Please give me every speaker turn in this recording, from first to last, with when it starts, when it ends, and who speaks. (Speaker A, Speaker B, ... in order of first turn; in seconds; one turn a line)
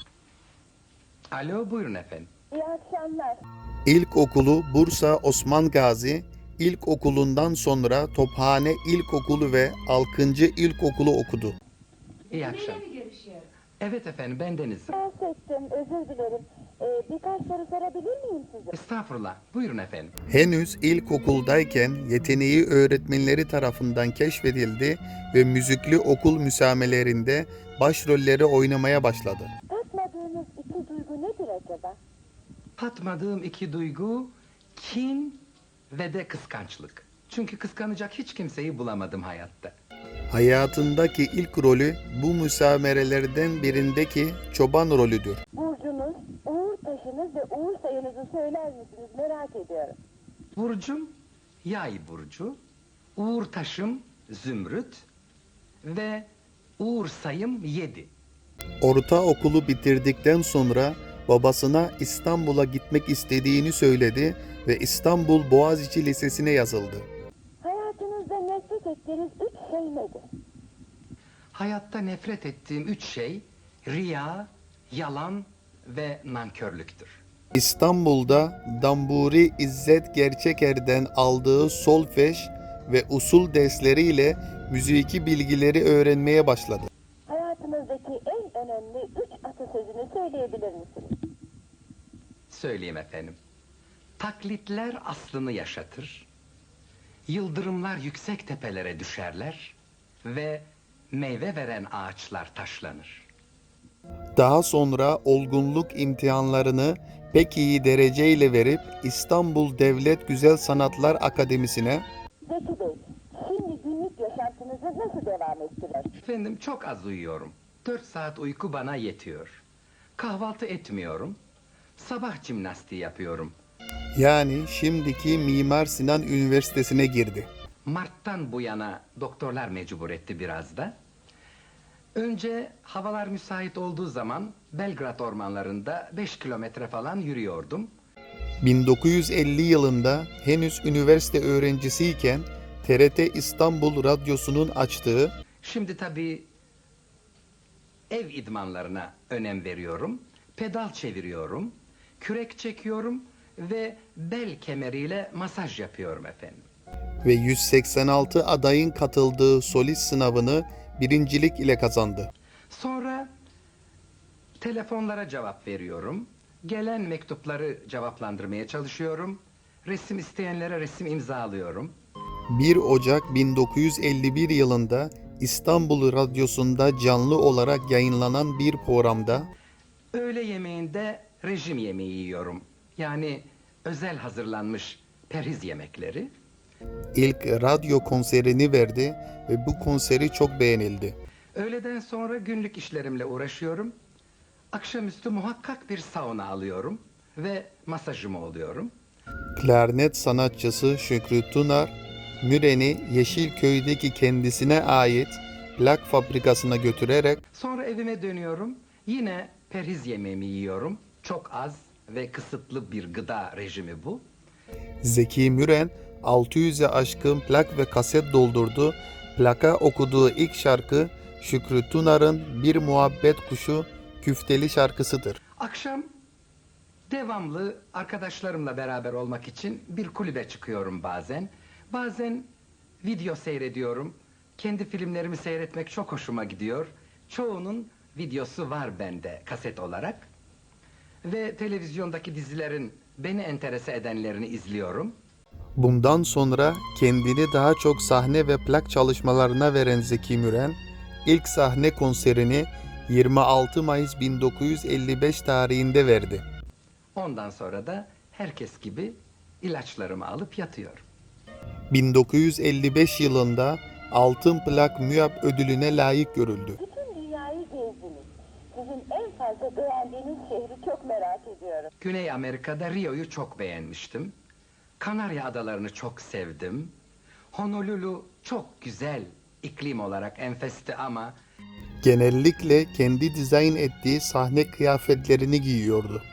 Speaker A: 1.3-2.3
Speaker B: 2.5-3.4
Speaker C: 3.9-11.6
Speaker A: 12.3-13.0
Speaker A: 13.8-14.9
Speaker B: 14.9-18.8
Speaker A: 18.7-20.1
Speaker C: 20.3-29.5
Speaker B: 29.7-32.0
Speaker A: 32.8-39.7
Speaker C: 40.3-45.4
Speaker B: 45.5-50.0
Speaker A: 50.5-52.6
Speaker A: 53.1-55.1
Speaker A: 55.8-58.1
Speaker C: 58.8-67.1
Speaker B: 67.6-70.2
Speaker A: 71.5-77.2
Speaker C: 77.5-86.9
Speaker B: 87.3-91.1
Speaker A: 92.5-93.4
Speaker A: 94.2-96.3
Speaker A: 97.3-103.3
Speaker C: 104.3-112.0
Speaker B: 112.5-116.1
Speaker A: 116.2-119.6
Speaker A: 120.2-121.4
Speaker A: 122.0-123.5
Speaker C: 124.1-127.5
Speaker A: 127.8-130.9
Speaker A: 132.1-137.9
Speaker C: 138.6-145.3
Speaker A: 145.6-146.5
Speaker A: 148.1-156.7
Speaker C: 157.2-162.3
Speaker A: 162.7-163.3
Speaker A: 164.6-171.9
Speaker C: 172.5-179.5
Speaker A: 180.1-186.3
Speaker C: 187.1-191.2
Speaker A: 191.5-194.0
Speaker A: 194.7-198.9
Speaker C: 199.6-207.4
Speaker A: 207.5-214.2
Speaker C: 215.0-225.4
Speaker A: 225.6-226.1
Speaker A: 227.1-240.3
Speaker A: 241.2-245.2
Speaker C: 245.8-256.4
Speaker A: 257.1-261.0
Speaker C: 261.9-266.8
Speaker B: 266.8-271.9
Speaker A: 272.0-274.3
Speaker A: 275.0-276.9
Speaker A: 277.5-281.4
Speaker C: 282.0-286.2